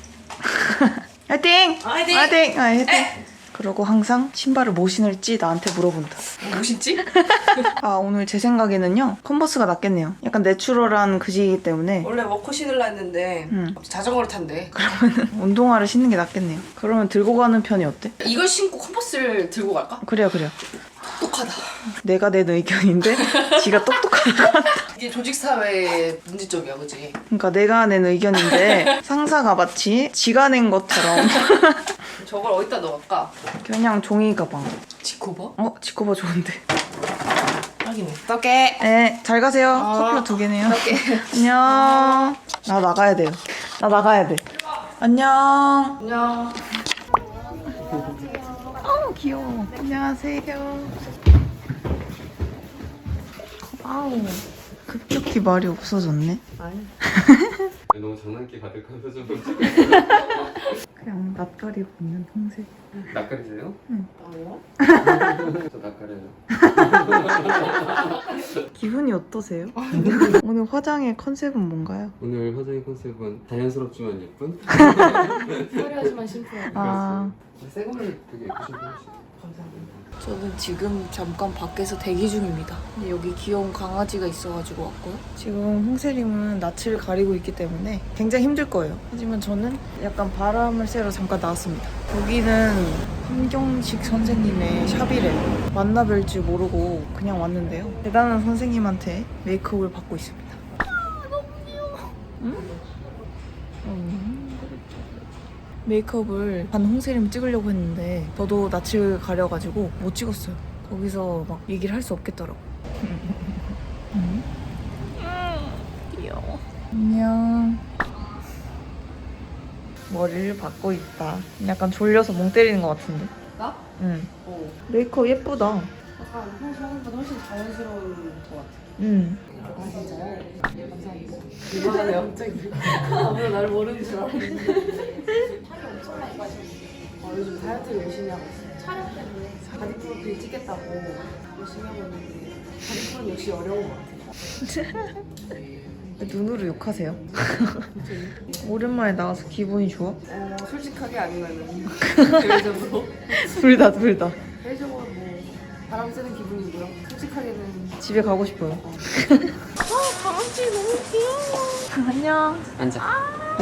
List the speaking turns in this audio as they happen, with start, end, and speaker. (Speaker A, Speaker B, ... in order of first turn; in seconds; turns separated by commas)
Speaker A: 0.4-6.2, Speaker B: 1.8-3.1, Speaker B: 6.4-7.7, Speaker A: 7.2-12.1, Speaker B: 12.0-14.7, Speaker A: 13.5-13.8, Speaker A: 14.7-18.1, Speaker B: 18.2-20.0, Speaker A: 20.0-20.5, Speaker B: 21.1-21.8, Speaker A: 22.0-24.9, Speaker B: 23.2-24.3, Speaker B: 24.9-27.1, Speaker A: 27.3-31.9, Speaker B: 28.4-28.9, Speaker B: 32.2-33.3, Speaker A: 33.6-34.7, Speaker B: 35.0-35.5, Speaker A: 35.6-36.6, Speaker B: 37.8-38.9, Speaker A: 38.8-44.4, Speaker B: 39.7-42.3, Speaker A: 45.0-46.0, Speaker B: 46.0-46.6, Speaker A: 48.8-50.9, Speaker A: 53.6-56.4, Speaker B: 56.6-56.9, Speaker A: 57.0-57.7, Speaker C: 57.9-60.2, Speaker A: 61.0-62.7, Speaker C: 63.1-63.8, Speaker B: 64.2-64.6, Speaker A: 64.8-65.5, Speaker C: 65.0-68.0, Speaker A: 66.7-67.2, Speaker A: 68.7-72.2, Speaker B: 69.8-70.4, Speaker C: 72.2-76.1, Speaker A: 74.8-75.4, Speaker B: 74.8-77.0, Speaker A: 76.7-77.3, Speaker C: 76.7-79.2, Speaker B: 79.4-79.9, Speaker A: 80.2-100.6, Speaker A: 101.7-102.7, Speaker A: 103.8-105.0, Speaker A: 105.8-114.5, Speaker A: 115.2-117.8, Speaker A: 120.1-123.3, Speaker A: 124.0-124.3, Speaker B: 124.4-124.8, Speaker A: 124.9-125.9, Speaker B: 126.2-128.8, Speaker A: 129.0-129.4, Speaker B: 129.6-135.4, Speaker B: 137.2-144.2, Speaker A: 144.7-145.1, Speaker A: 146.2-147.9, Speaker B: 147.9-148.4, Speaker A: 148.6-150.2, Speaker B: 150.2-153.3, Speaker A: 152.1-152.4, Speaker A: 153.3-154.4, Speaker B: 154.6-158.0, Speaker A: 158.0-159.6, Speaker B: 159.8-161.8, Speaker A: 161.9-162.7, Speaker C: 162.8-163.1